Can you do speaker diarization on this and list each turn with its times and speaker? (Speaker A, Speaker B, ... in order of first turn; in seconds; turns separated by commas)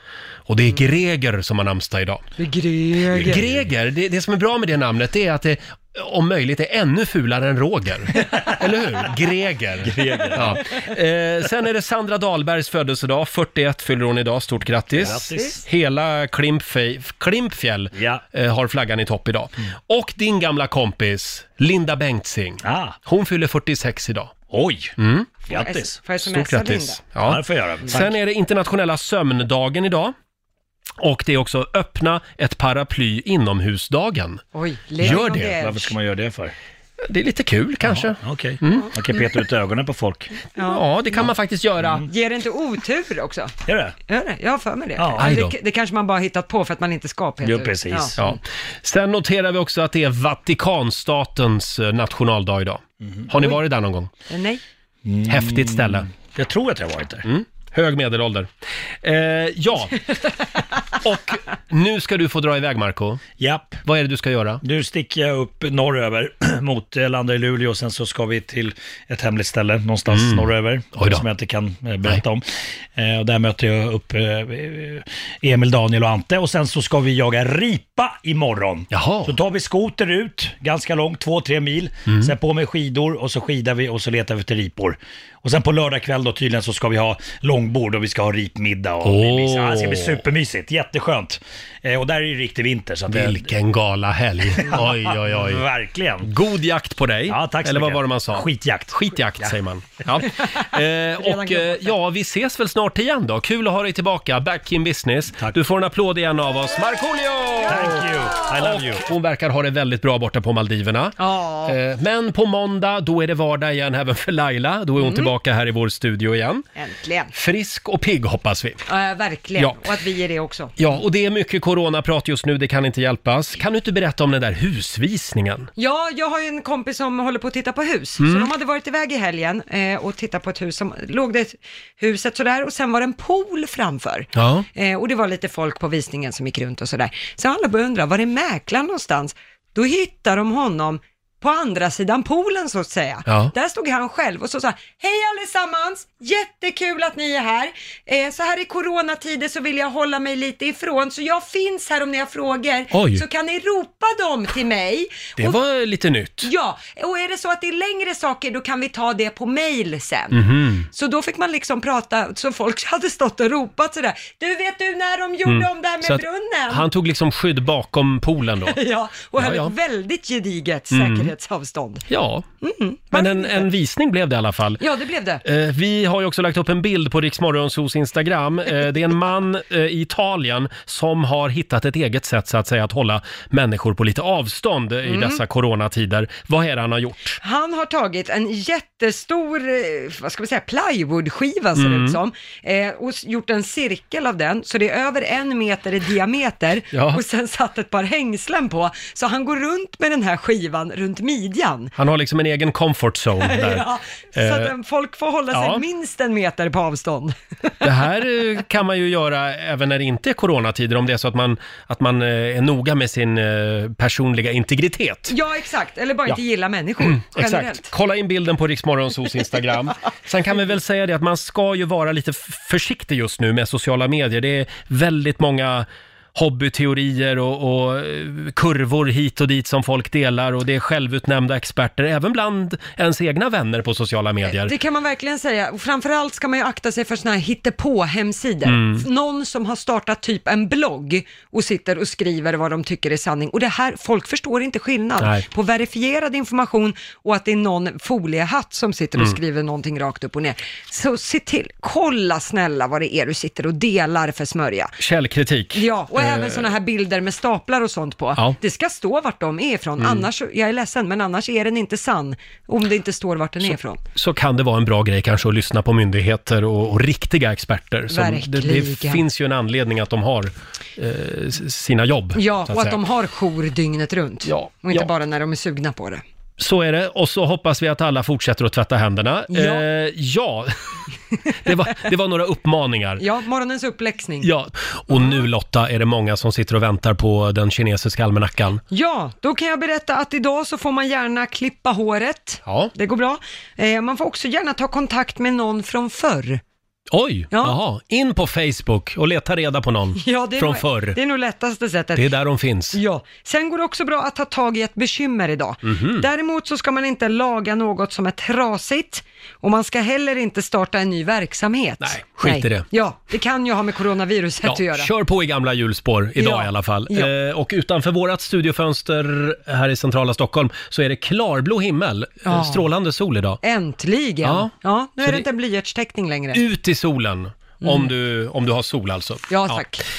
Speaker A: 0.5-2.2, Speaker B: 2.4-3.6, Speaker A: 3.1-24.3, Speaker C: 9.8-10.7, Speaker C: 14.9-15.6, Speaker B: 15.1-15.4, Speaker C: 17.9-18.2, Speaker C: 22.6-23.0, Speaker C: 24.5-24.9, Speaker A: 25.0-25.3, Speaker B: 25.5-27.0, Speaker C: 25.5-26.0, Speaker A: 26.2-30.1, Speaker C: 27.2-28.2, Speaker A: 31.0-34.4, Speaker B: 34.5-35.9, Speaker A: 35.0-35.5, Speaker C: 35.0-36.5, Speaker A: 37.1-38.9, Speaker C: 37.8-40.4, Speaker B: 40.5-40.9, Speaker A: 40.7-42.0, Speaker C: 41.8-42.1, Speaker B: 42.1-43.5, Speaker C: 43.6-43.9, Speaker B: 44.1-48.4, Speaker C: 45.0-45.3, Speaker A: 45.2-45.5, Speaker C: 47.4-48.1, Speaker A: 48.2-54.1, Speaker C: 53.0-53.3, Speaker B: 54.3-54.6, Speaker C: 55.0-57.2, Speaker A: 55.3-56.1, Speaker A: 57.2-58.5, Speaker A: 59.0-60.0, Speaker A: 61.0-63.2, Speaker C: 63.4-63.8, Speaker A: 63.8-64.6, Speaker C: 64.6-93.5, Speaker A: 70.1-71.2, Speaker A: 78.9-79.3, Speaker A: 82.1-82.3, Speaker A: 89.0-90.2, Speaker A: 93.1-95.6, Speaker C: 94.5-96.3, Speaker A: 96.2-116.6, Speaker C: 97.3-99.5, Speaker B: 100.4-102.0, Speaker C: 107.7-109.0, Speaker B: 111.2-111.8, Speaker B: 115.0-115.3, Speaker B: 116.8-117.3, Speaker A: 117.3-118.8, Speaker B: 118.9-120.8, Speaker A: 120.8-125.7, Speaker B: 125.8-155.6, Speaker A: 128.2-128.5, Speaker A: 134.3-134.7, Speaker A: 143.3-143.5, Speaker A: 152.9-153.2, Speaker A: 155.4-156.5, Speaker B: 156.4-166.8, Speaker A: 160.3-160.8, Speaker A: 165.5-168.8, Speaker B: 168.7-172.1, Speaker A: 169.4-169.7, Speaker A: 170.9-171.3, Speaker A: 172.1-172.4, Speaker B: 172.6-173.7, Speaker A: 173.1-174.8, Speaker B: 174.8-175.4, Speaker A: 175.4-187.4, Speaker B: 185.0-185.4, Speaker B: 187.4-201.9, Speaker A: 191.8-192.2, Speaker A: 196.9-197.2, Speaker A: 201.9-204.7, Speaker B: 203.4-207.3, Speaker A: 205.5-205.8, Speaker A: 207.8-215.3, Speaker B: 215.3-217.9, Speaker A: 217.0-234.7, Speaker B: 234.4-255.0, Speaker A: 238.6-239.0, Speaker A: 245.2-245.4, Speaker A: 255.0-256.6, Speaker B: 255.7-264.0, Speaker A: 260.0-260.3, Speaker A: 263.6-273.0, Speaker B: 268.1-269.2, Speaker B: 272.3-276.2, Speaker A: 274.4-275.1, Speaker A: 276.6-280.8, Speaker B: 279.5-279.9, Speaker A: 281.5-283.2, Speaker B: 283.2-284.5, Speaker A: 284.4-288.8, Speaker B: 285.1-285.4, Speaker B: 288.9-296.6, Speaker A: 292.6-292.9, Speaker A: 297.1-301.2, Speaker B: 297.5-297.8, Speaker B: 300.2-302.3, Speaker A: 302.1-303.0, Speaker B: 302.9-315.1, Speaker A: 305.8-306.3, Speaker A: 312.0-312.9, Speaker A: 314.6-323.6, Speaker B: 316.4-317.3, Speaker B: 322.5-322.8, Speaker B: 323.6-326.6, Speaker A: 324.4-325.5, Speaker A: 326.5-329.8, Speaker B: 327.8-328.1, Speaker B: 329.5-330.0